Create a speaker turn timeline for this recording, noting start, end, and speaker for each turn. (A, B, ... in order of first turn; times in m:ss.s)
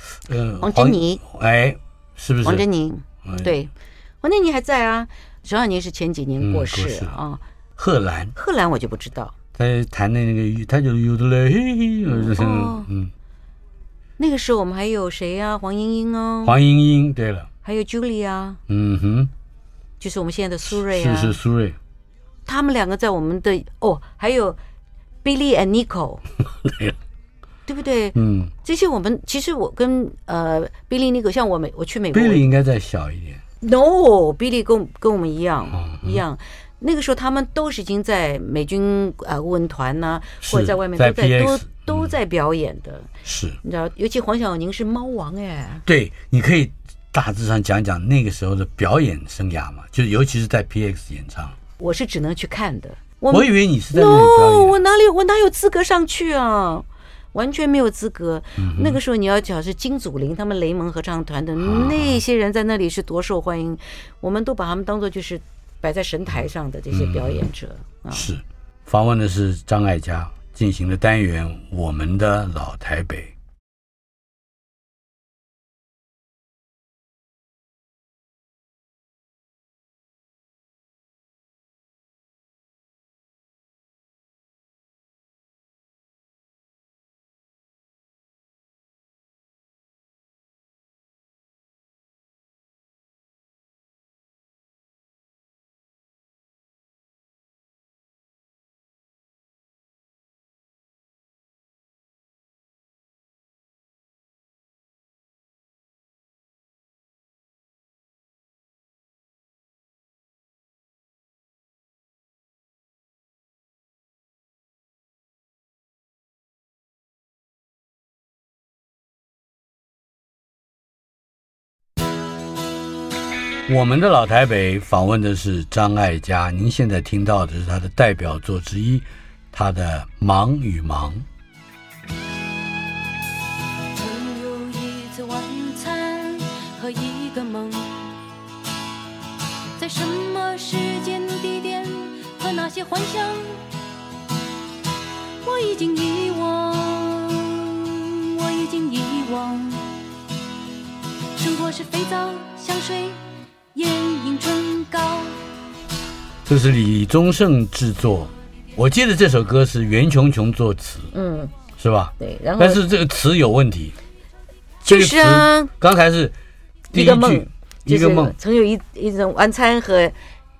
0:00.2-0:02.7 A
0:00.6-0:01.2 B
0:02.4-0:03.7 B
0:03.2-0:03.5 A
0:04.2-0:07.4 B
0:06.4-0:07.2 A
0:07.8-0:08.3 A
0:08.3-0:09.3 B
0:09.5-0:13.1 A
0:12.0-0:12.9 B
0:14.2-0:16.6 B
0:16.4-0:17.5 A
0:17.6-0:18.6 B
0:18.7-0:19.3 A
0:20.0-0:21.4 B
0:20.7-0:21.8 A
0:22.4-0:24.6 B
0:25.2-0:26.2 B
0:26.6-0:27.0 A
0:27.7-0:32.5 B
0:28.1-0:28.5 A
0:32.1-0:33.4 A
0:33.6-0:43.1 B
0:35.7-0:36.2 A
0:40.4-0:42.1 A
0:43.2-0:43.6 A
0:43.6-0:45.8 B
0:45.8-0:51.6 A
0:51.8-1:08.3 B
0:53.3-0:54.8 A
0:58.6-0:59.0 A
1:01.6-1:02.2 A
1:06.9-1:07.4 A
1:08.1-1:13.3 A
2:03.7-2:11.2 A
2:13.9-2:18.1 C
2:19.8-2:23.6 C
2:25.4-2:29.9 C
2:31.4-2:33.2 C
2:33.7-2:35.4 C
2:36.4-2:41.1 A
2:41.1-2:41.5 B
2:41.8-2:44.0 A
2:42.2-2:42.8 B
2:44.8-2:45.7 B
2:44.8-2:46.3 A
2:46.9-2:50.1 B
2:46.9-2:48.3 A